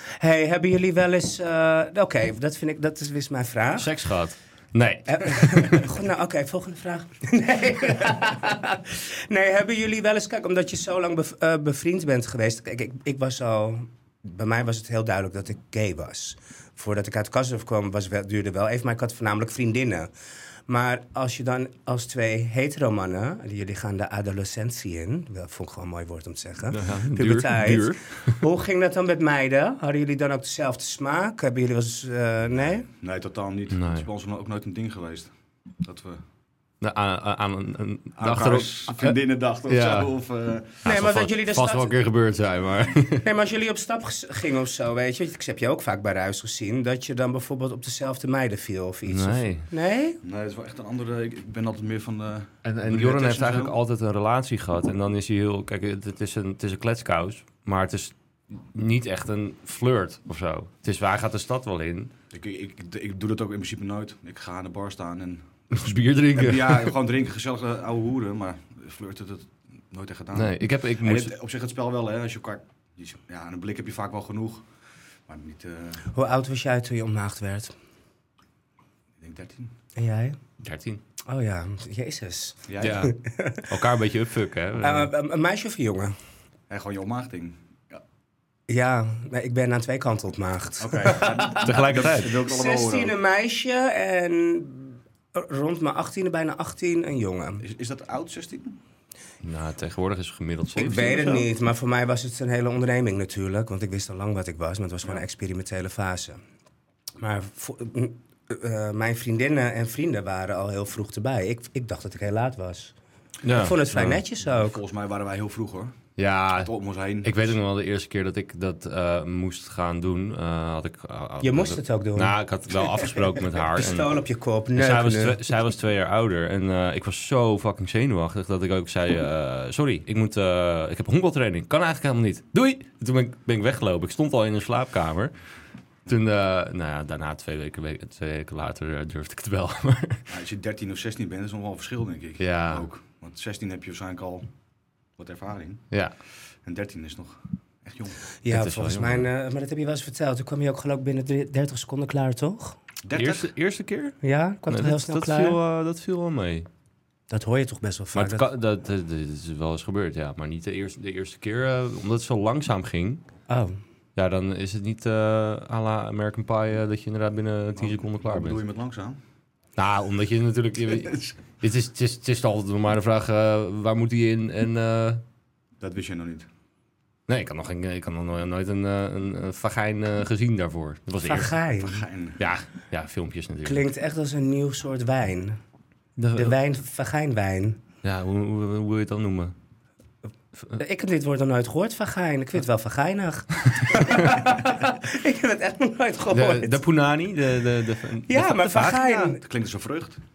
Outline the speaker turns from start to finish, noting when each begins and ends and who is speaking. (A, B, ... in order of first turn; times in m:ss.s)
0:00.2-0:03.9 A
0:03.8-0:05.9 B
0:05.1-0:20.1 A
0:20.7-0:32.9 A
0:26.7-0:28.4 B
0:33.0-0:36.2 C
0:33.7-0:34.1 B
0:36.8-0:40.1 B
0:38.2-0:40.9 C
0:40.8-0:43.3 B
0:40.8-0:42.0 A
0:43.2-0:50.2 A
0:49.0-0:49.6 B
0:50.2-0:53.8 C
0:52.6-1:02.1 B
1:02.3-1:05.5 C
1:05.7-1:06.9 B
1:06.3-1:14.6 C
1:10.3-1:11.3 B
1:15.3-1:16.1 C
1:16.1-1:17.7 A
1:19.2-1:19.7 C
1:20.0-1:20.4 A
1:20.6-1:21.0 B
1:21.2-1:23.7 A
1:22.7-1:23.1 C
1:22.8-1:25.1 B
1:24.8-1:26.1 A
1:26.7-1:28.0 C
1:28.7-1:37.6 A
1:30.8-1:33.2 C
1:31.6-1:32.3 B
1:37.6-1:38.8 C
1:39.4-1:41.5 B
1:40.7-1:46.4 A
1:47.2-1:52.9 A
1:53.4-1:54.2 B
1:53.4-1:54.8 A
1:54.4-1:56.0 C
1:56.2-2:04.2 B
1:56.5-1:57.6 C
2:01.4-2:02.4 A
2:02.9-2:05.4 A
2:04.8-2:15.3 B
2:16.1-2:20.2 B
2:20.3-2:24.5 C
2:22.4-2:22.8 B
2:25.2-2:25.9 C
2:26.5-2:28.2 C
2:28.4-2:32.8 A
2:28.5-2:29.3 B
2:33.0-2:33.5 C
2:33.1-2:34.2 B
2:34.2-2:35.6 A
2:34.7-2:36.7 B
2:37.3-2:38.4 A
2:38.1-2:43.2 B
2:43.5-2:43.8 A
2:44.2-2:48.6 B
2:47.8-2:49.2 C
2:49.8-2:55.2 B
2:55.8-2:56.5 C
2:57.3-3:01.5 B
3:01.2-3:02.0 A
3:01.8-3:02.4 C
3:02.4-3:03.8 B
3:03.6-3:05.6 A
3:06.2-3:06.6 B
3:06.3-3:07.8 A
3:08.0-3:09.5 B
3:10.8-3:16.8 A
3:16.3-3:19.4 B
3:18.3-3:19.4 A
3:19.4-3:20.2 C